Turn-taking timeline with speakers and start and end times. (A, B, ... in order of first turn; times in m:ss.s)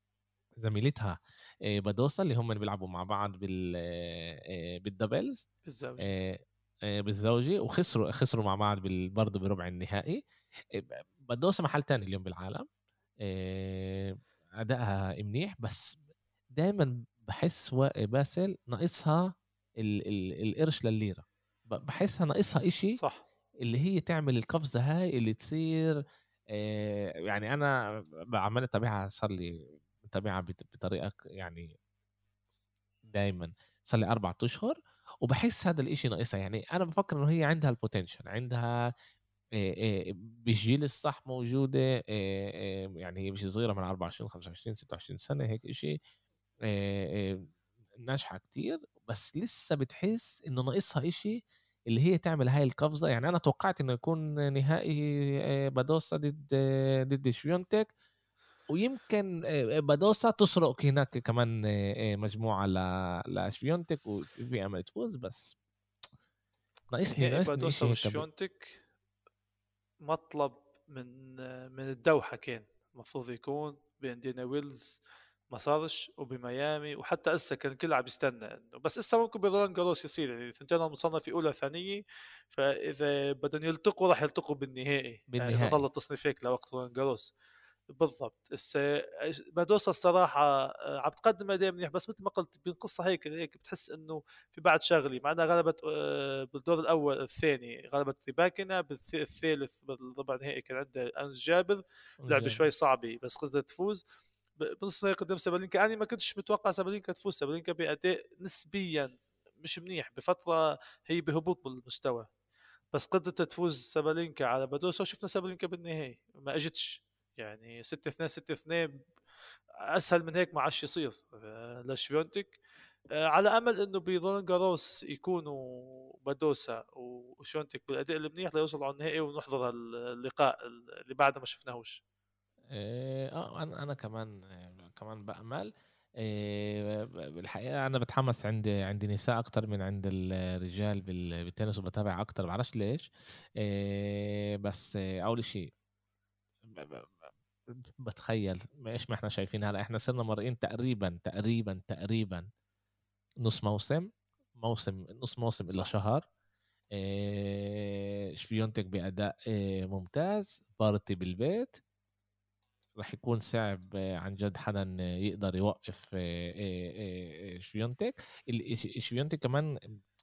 0:00.6-0:05.4 A
0:05.7-0:06.1 B
0:06.0-0:10.2 A
0:10.7-0:12.7 A
0:13.2-0:16.0 A
0:16.5-0:19.3 A
0:19.8-0:23.0 A
0:23.0-0:23.2 B
0:23.6-0:26.0 A
0:26.5-0:27.7 A
0:28.3-0:31.7 A
0:33.1-0:38.7 A
0:39.6-0:46.0 A
0:46.7-0:47.4 A
0:48.0-0:51.4 A
0:51.9-0:57.9 A
0:58.7-1:05.6 A
1:06.9-1:08.2 A
1:07.1-1:08.8 B
1:10.0-1:15.0 B
1:15.5-1:27.3 B
1:25.3-1:25.8 A
1:27.9-1:44.0 B
1:42.2-1:42.7 A
1:44.6-1:52.3 B
1:52.9-1:58.9 B
1:59.9-2:02.6 B
2:03.2-2:12.0 B
2:12.7-2:25.7 A
2:26.7-2:32.5 A
2:33.4-2:36.2 A
2:36.9-2:41.8 A
2:43.0-2:49.7 A